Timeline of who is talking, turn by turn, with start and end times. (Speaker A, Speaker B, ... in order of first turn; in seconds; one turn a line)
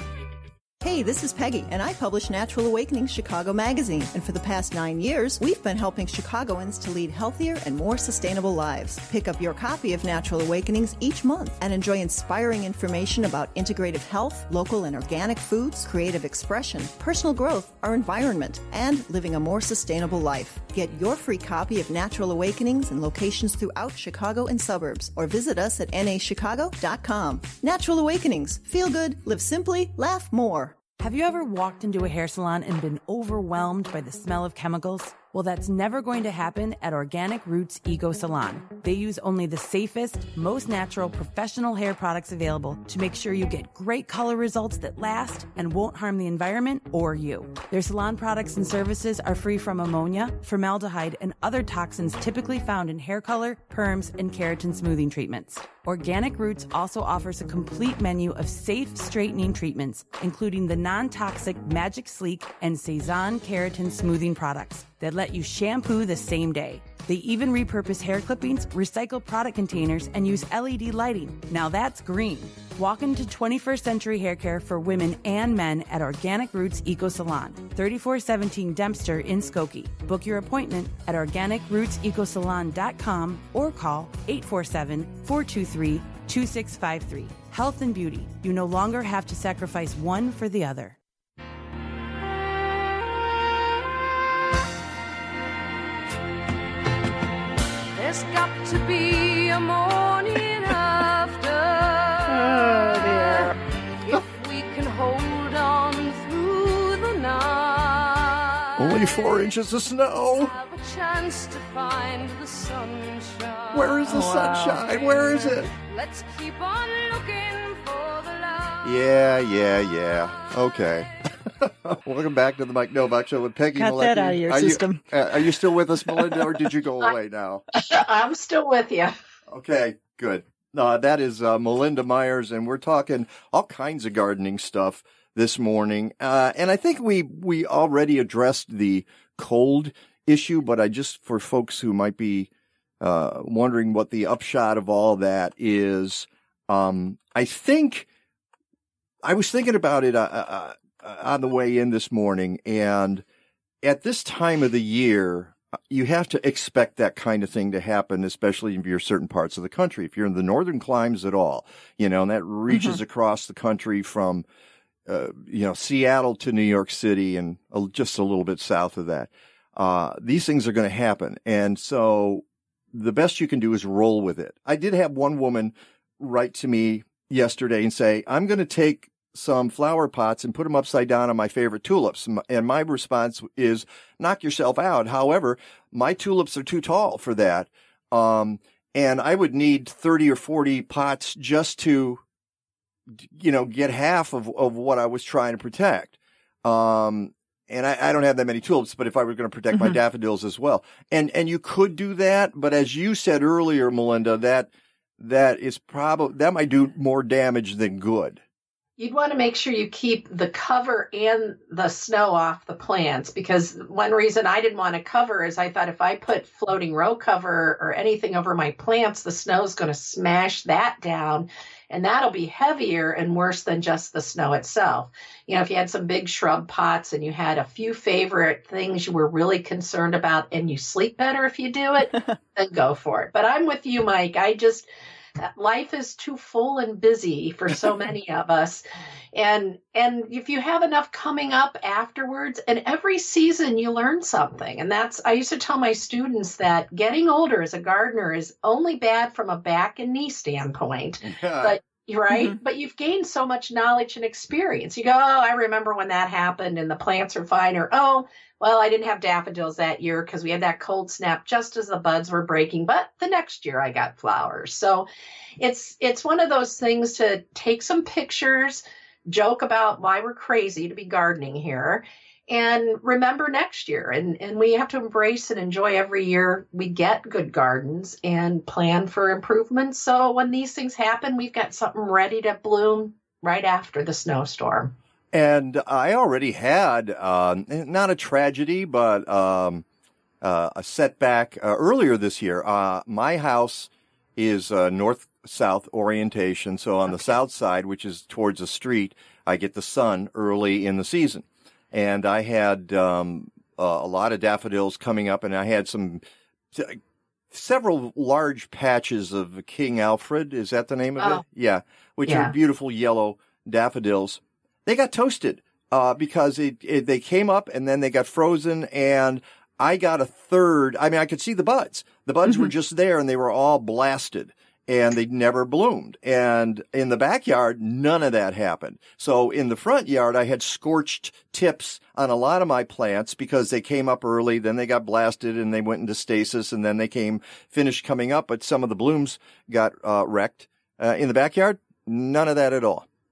Speaker A: 0.8-30.8
Speaker B: 31.0-91.0
Speaker C: 98.0-109.5
Speaker A: 102.3-103.5
Speaker D: 108.8-110.6
Speaker C: 110.3-121.0
Speaker D: 113.7-115.7
Speaker A: 114.0-114.8
Speaker D: 118.8-127.6
Speaker A: 123.8-125.0
Speaker E: 127.8-129.1
Speaker D: 129.5-142.5
Speaker D: 143.0-148.1
Speaker D: 149.2-153.2
Speaker D: 153.8-164.4
Speaker A: 162.7-163.0
Speaker D: 165.1-192.2
Speaker D: 193.2-208.4
Speaker A: 199.7-200.0
Speaker E: 209.0-234.9
Speaker A: 232.1-232.3
Speaker E: 235.4-238.8
Speaker E: 239.3-265.1
Speaker D: 251.2-251.8
Speaker A: 252.3-252.6
Speaker E: 265.6-284.9
Speaker D: 285.3-289.9
Speaker D: 290.4-307.0
Speaker D: 307.5-343.1
Speaker E: 312.3-312.5